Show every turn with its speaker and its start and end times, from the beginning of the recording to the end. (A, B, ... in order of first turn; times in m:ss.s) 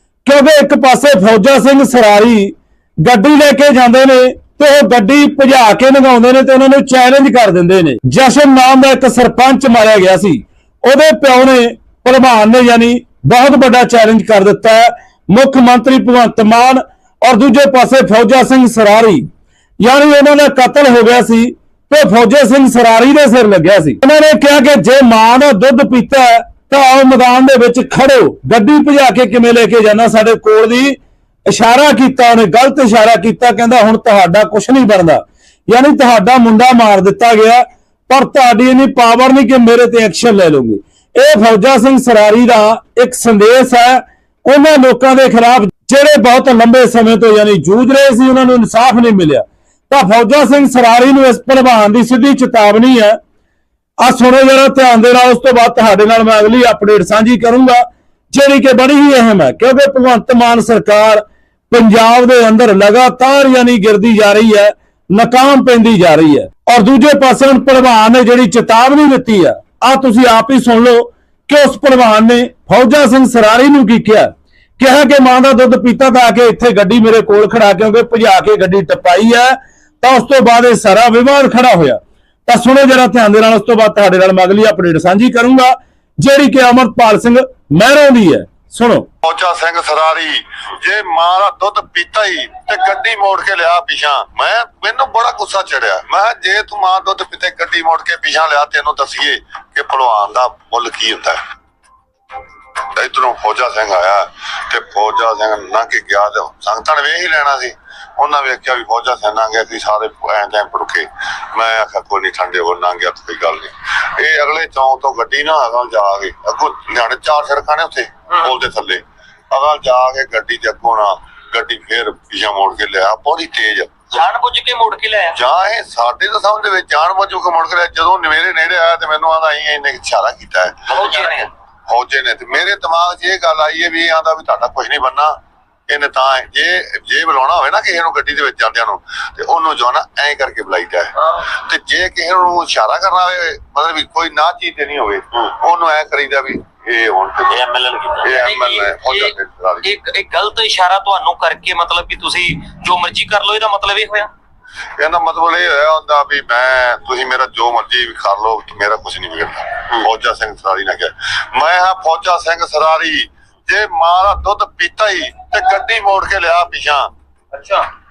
0:00.2-0:19.3 A
0:19.8-0:53.2 A
0:54.0-1:29.1 A
1:29.2-1:41.4 B
1:43.0-2:04.2 B
2:04.1-2:05.4 C
2:05.3-2:15.3 B
2:10.9-2:11.5 C
2:15.9-2:29.9 B
2:27.7-2:34.3 C
2:35.0-2:47.1 B
2:47.5-2:47.8 C